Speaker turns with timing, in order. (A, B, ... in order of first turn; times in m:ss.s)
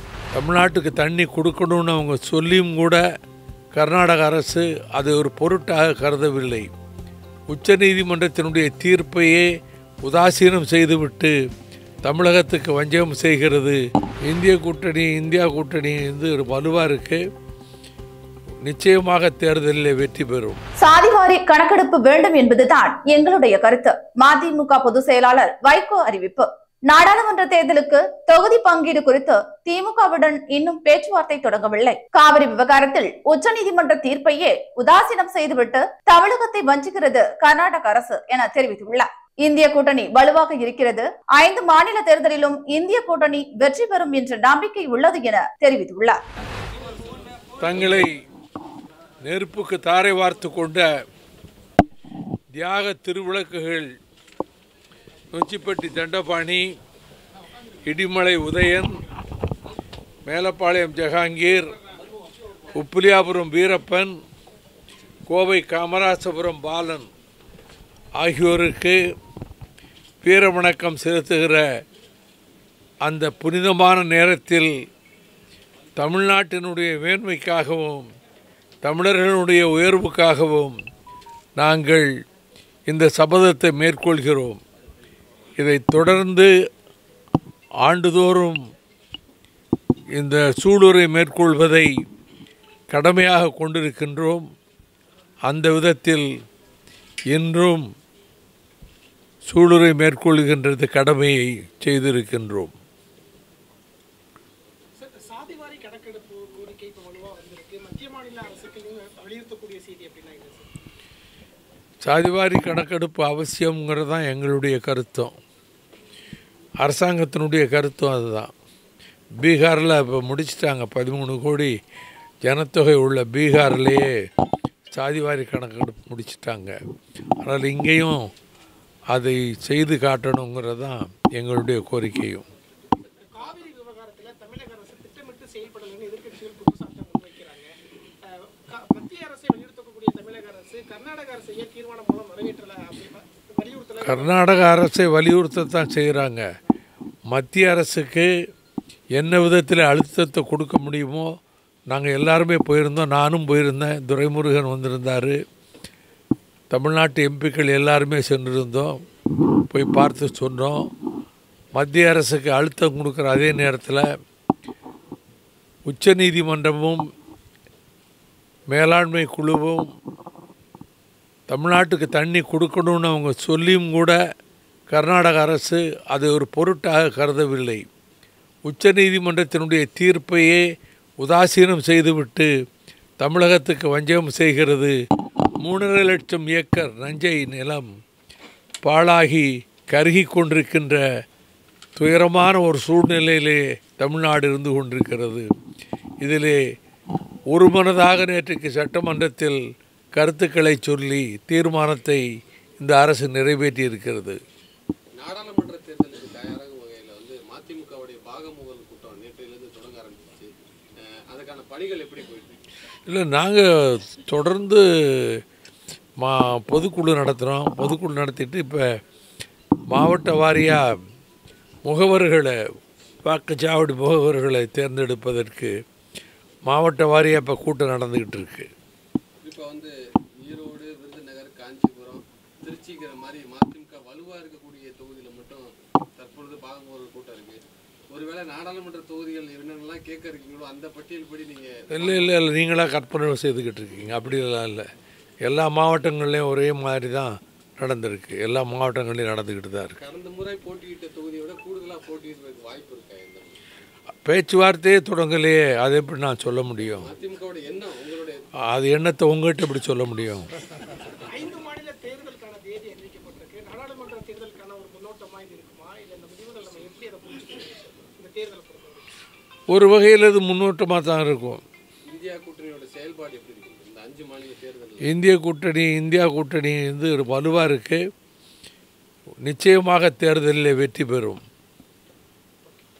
0:00.3-0:03.0 A
0:03.7-0:06.7 A
0:07.5-0:09.5 A
0:10.0-0:11.3 A
0:12.0-0:17.2 A
0:18.6-0:20.6 A
0:20.8-0:46.2 B
0:47.6-0:48.2 A
0:49.2-0:50.9 A
0:52.5-0:53.9 A
0:55.3-0:56.7 A
0:57.8-0:59.0 A
1:00.2-1:01.7 A
1:02.7-1:04.2 A
1:05.3-1:07.1 A
1:08.2-1:09.0 A
1:10.2-1:11.6 A
1:13.0-1:14.8 A
1:16.0-1:18.1 A
1:18.8-1:20.8 A
1:21.6-1:22.1 A
1:22.9-1:24.6 A
1:25.6-1:26.5 A
1:27.8-1:28.6 A
1:30.1-1:31.9 A
1:32.9-1:34.4 A
1:35.4-1:36.3 A
1:37.3-1:37.9 A
1:39.4-1:42.7 A
1:45.0-1:50.7 C
1:52.0-1:55.3 A
1:56.8-1:58.5 A
1:59.4-2:01.7 A
2:02.4-2:04.1 A
2:04.9-2:06.8 A
2:07.4-2:08.3 A
2:09.1-2:12.4 A
2:13.4-2:17.7 C
2:18.4-2:24.4 C
2:24.0-2:26.4 A
2:27.3-2:28.3 A
2:29.1-2:31.3 A
2:31.9-2:35.4 A
2:36.7-2:39.0 A
2:39.7-2:40.9 A
2:41.7-2:44.0 A
2:45.8-2:47.0 A
2:48.7-2:49.9 A
2:51.5-2:54.2 A
2:54.9-2:57.8 A
2:58.6-3:00.6 A
3:01.2-3:02.5 A
3:03.2-3:04.9 A
3:05.6-3:07.9 A
3:08.8-3:11.0 A
3:12.0-3:15.5 A
3:16.2-3:16.6 A
3:17.5-3:19.6 A
3:20.1-3:22.2 A
3:22.8-3:24.4 A
3:25.2-3:30.5 D
3:31.3-3:32.6 D
3:33.1-3:35.4 A
3:36.2-3:38.8 A
3:39.9-3:40.8 A
3:41.8-3:42.5 A
3:43.2-3:45.7 A
3:46.6-3:48.7 A
3:49.4-3:49.9 D
3:50.4-3:55.6 D
3:56.2-3:57.6 D
3:58.1-4:02.3 D
4:01.9-4:04.8 A
4:05.4-4:09.9 A
4:10.0-4:13.6 D
4:14.2-4:17.1 A
4:16.8-4:18.4 D
4:18.7-4:20.4 A
4:21.3-4:29.0 C
4:29.7-4:31.6 A
4:32.1-4:35.1 D
4:35.0-4:38.0 A
4:39.4-4:41.4 A